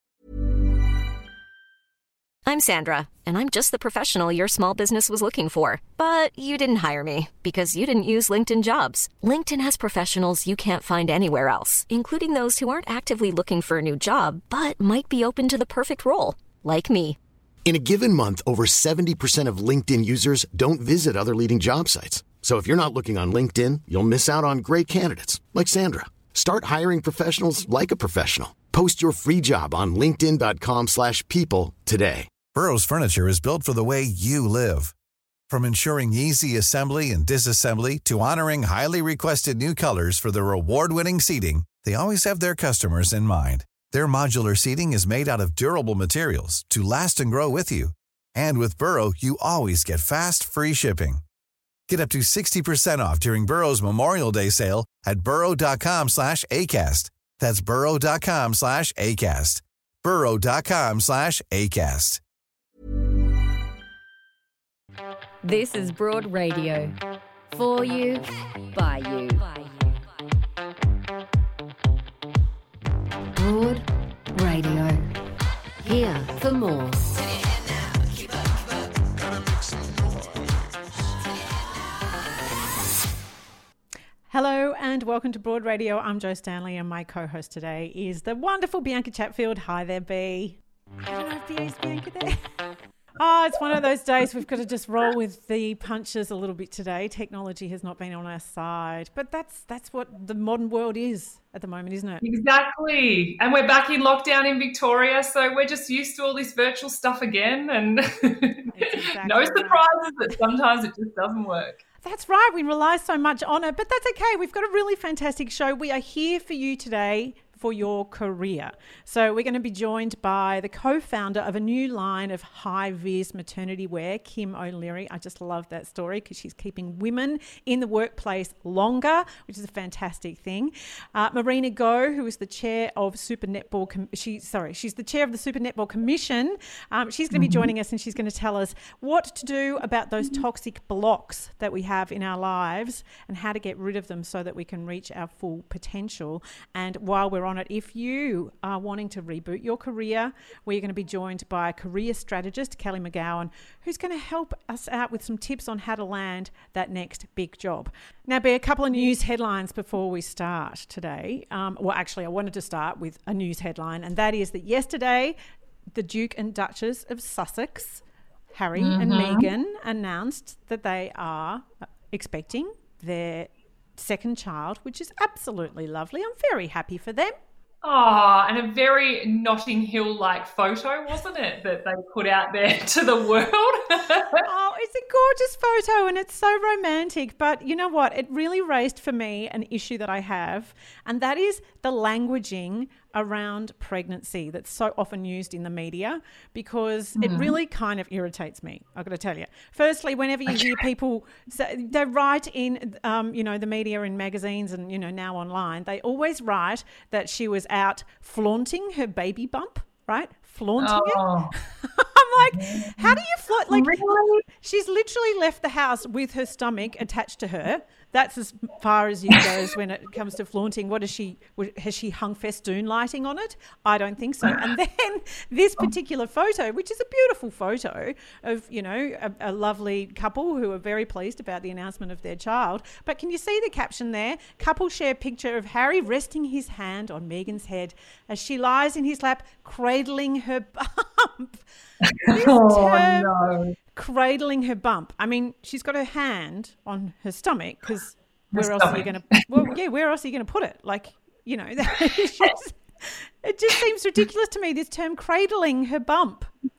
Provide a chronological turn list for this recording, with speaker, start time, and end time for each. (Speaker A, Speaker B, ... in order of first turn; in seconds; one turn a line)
Speaker A: 2.4-17.2
Speaker B: 17.6-32.3
Speaker C: 32.5-34.9
Speaker C: 35.5-51.2
Speaker C: 51.9-62.2
Speaker D: 65.4-67.0
Speaker D: 67.5-69.7
Speaker D: 73.4-75.1
Speaker D: 75.8-77.0
Speaker E: 84.3-92.4
Speaker E: 93.2-102.2
Speaker F: 102.2-111.8
Speaker E: 108.7-109.8
Speaker E: 112.0-165.3
Speaker F: 137.3-137.7
Speaker E: 165.9-177.4
Speaker F: 168.8-169.5
Speaker F: 177.8-184.4
Speaker E: 184.4-241.6
Speaker F: 197.2-197.6
Speaker F: 210.8-211.5
Speaker F: 212.5-214.4
Speaker F: 242.0-243.7
Speaker E: 242.3-243.3
Speaker E: 243.9-256.5
Speaker F: 248.5-249.6